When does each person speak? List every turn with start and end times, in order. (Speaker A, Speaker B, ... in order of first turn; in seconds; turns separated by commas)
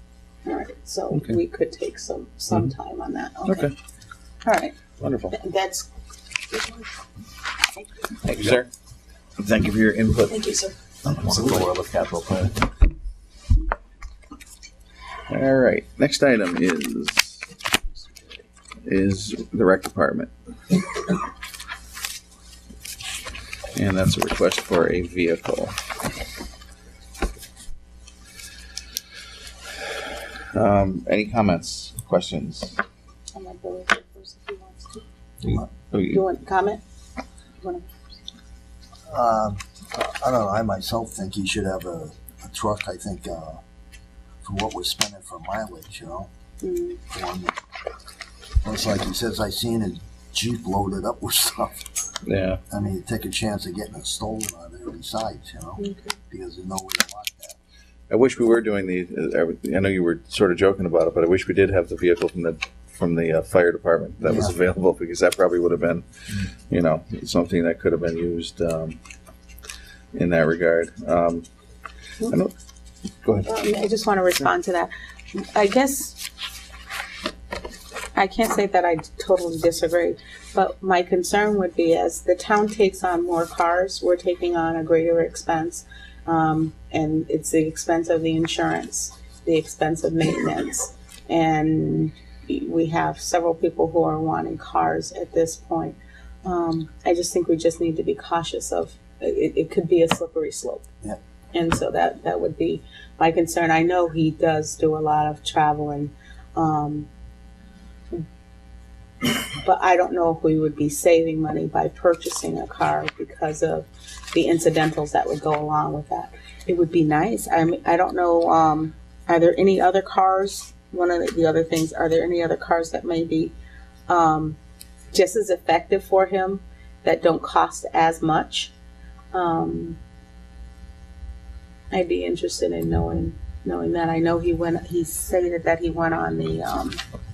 Speaker A: 0.4-3.7, Speaker B: 3.5-3.7, Speaker A: 4.4-4.8, Speaker B: 5.0-5.4, Speaker A: 5.3-5.9, Speaker A: 6.5-6.9, Speaker A: 7.7-8.2, Speaker B: 8.2-8.7, Speaker B: 9.4-10.4, Speaker A: 10.3-10.8, Speaker B: 11.1-12.7, Speaker B: 15.3-17.5, Speaker B: 18.8-20.3, Speaker B: 23.7-25.7, Speaker B: 30.5-32.8, Speaker A: 33.3-35.0, Speaker B: 35.5-36.2, Speaker A: 36.1-36.8, Speaker A: 37.6-37.9, Speaker C: 39.1-43.6, Speaker C: 44.4-46.3, Speaker A: 46.6-47.0, Speaker C: 47.1-47.5, Speaker C: 48.6-51.9, Speaker B: 52.2-52.6, Speaker C: 52.7-57.6, Speaker A: 55.8-56.1, Speaker B: 58.1-66.0, Speaker C: 64.2-64.5, Speaker B: 66.7-69.0, Speaker B: 70.1-71.5, Speaker B: 72.3-72.5, Speaker B: 73.2-73.5, Speaker A: 73.4-76.2, Speaker A: 78.1-100.8, Speaker A: 101.5-107.1, Speaker A: 109.2-123.5, Speaker A: 124.1-124.6, Speaker A: 125.1-128.7, Speaker A: 129.3-130.0, Speaker A: 131.9-137.0